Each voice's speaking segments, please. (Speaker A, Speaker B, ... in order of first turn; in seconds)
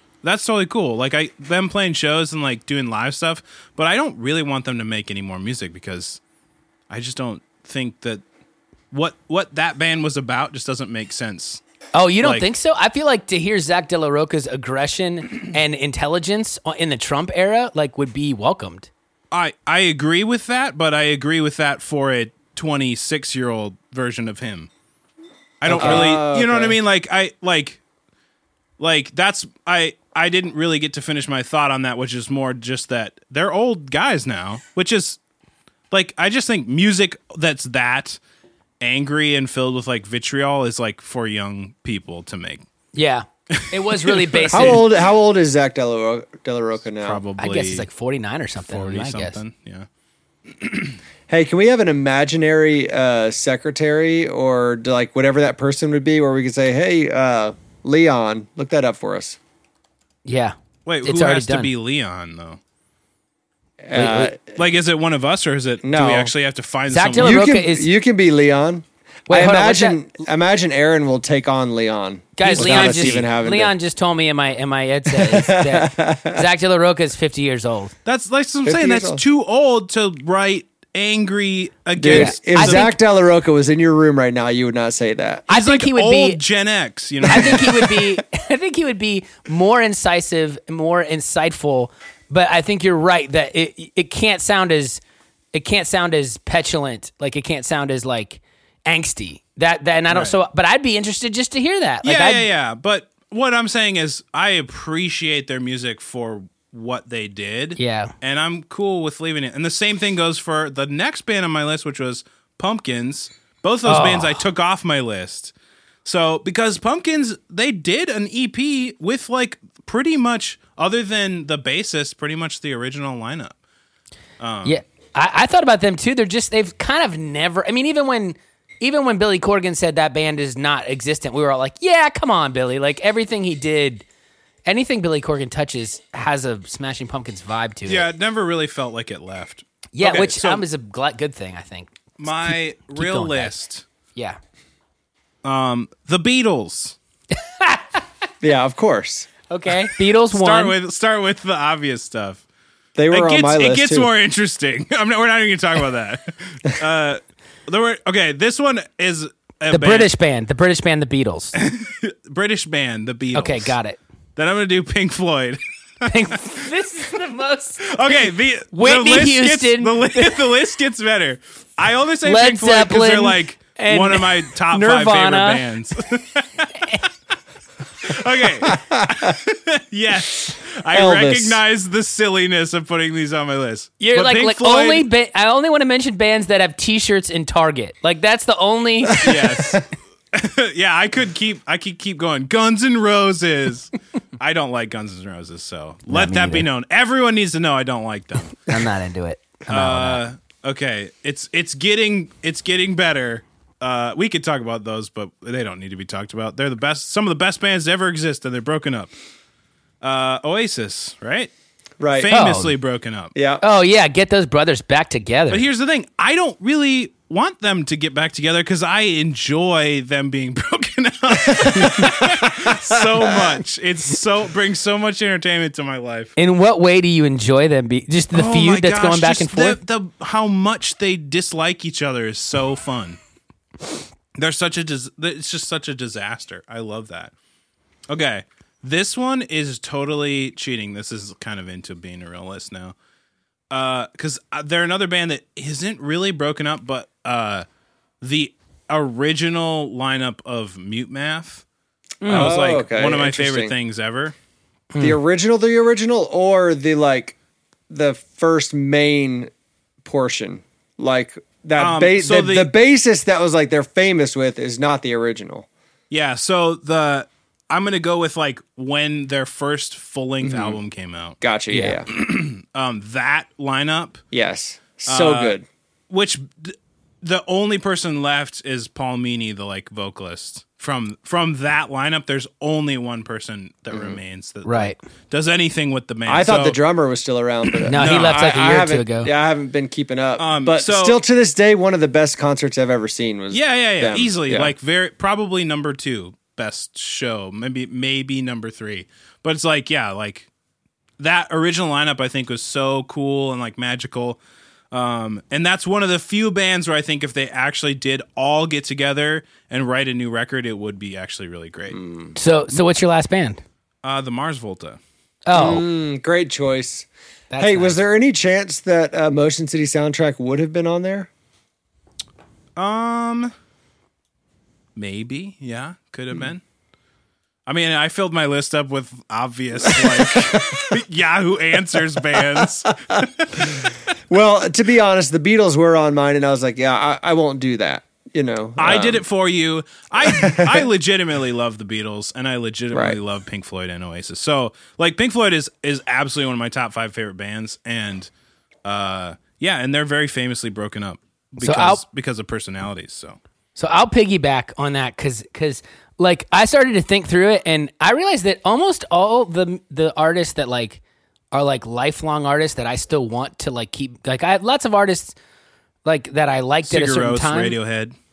Speaker A: 0.2-6.2, 6.9-8.2, 8.9-11.6, 19.3-24.7, 25.6-27.8, 28.8-35.2, 35.9-38.2, 38.8-42.6, 43.6-44.8, 47.0-47.9, 48.6-49.9, 50.6-50.9, 60.9-62.6, 64.5-67.5, 72.4-73.2, 78.0-82.8, 85.5-88.0, 100.1-100.3, 102.0-115.5, 116.0-123.5, 124.4-124.8, 137.9-140.6, 142.2-143.8, 145.4-147.0, 150.3-152.4, 153.1-160.1, 161.5-163.8, 164.3-166.4, 167.8-176.9, 178.0-185.1, 189.2-198.7, 199.7-209.1, 210.0-211.5, 212.1-213.3, 215.5-226.3, 228.3-233.2, 234.3-237.3, 238.1-242.9, 243.7-247.6, 248.2-251.6, 252.2-254.3, 261.8-262.7, 266.1-271.4, 272.1-274.2, 275.1-275.6, 276.1-286.8, 287.6-288.4, 290.4-291.2, 293.5-300.5, 301.2-304.4, 304.9-312.0, 314.0-315.0, 322.8-323.5, 324.9-326.6, 327.7-334.0, 338.8-348.3, 348.8-353.4, 366.9-368.1
Speaker B: 11.9-18.9, 42.9-44.8, 47.4-49.4, 60.2-61.7, 63.9-64.3, 66.9-67.9, 69.3-70.0, 72.4-77.9, 82.1-82.9, 85.5-86.4, 87.2-95.0, 95.5-102.5, 107.8-108.1, 113.8-114.4, 124.6-134.0, 134.7-138.1, 139.9-143.5, 147.3-147.8, 149.5-150.7, 159.7-161.5, 163.3-164.0, 166.0-168.1, 168.7-170.4, 172.2-175.6, 184.0-189.4, 196.1-196.7, 198.7-200.2, 212.3-212.7, 213.6-215.6, 226.4-229.8, 252.2-252.5, 254.9-255.2, 271.7-272.0, 284.6-285.0, 287.9-289.3, 312.4-313.6, 315.4-315.8, 317.5-318.0, 351.6-352.0, 353.8-361.0, 361.5-365.4, 366.0-367.8
Speaker C: 25.6-26.8, 44.5-47.2, 51.3-59.4, 63.8-64.5, 65.8-66.3, 67.2-73.7, 75.1-76.4, 78.6-79.2, 82.0-85.5, 148.4-149.3, 152.9-154.1, 178.7-179.3, 180.9-181.6, 212.0-212.3, 213.3-213.6, 222.3-223.5, 252.3-253.7, 255.0-257.4, 257.9-259.5, 260.0-265.7, 270.4-270.8, 271.4-272.1, 274.3-275.6, 283.9-284.2, 286.3-294.7, 311.9-312.3, 315.5-317.1, 317.6-321.3, 329.9-330.7, 334.3-339.2, 340.2-340.8, 342.9-343.2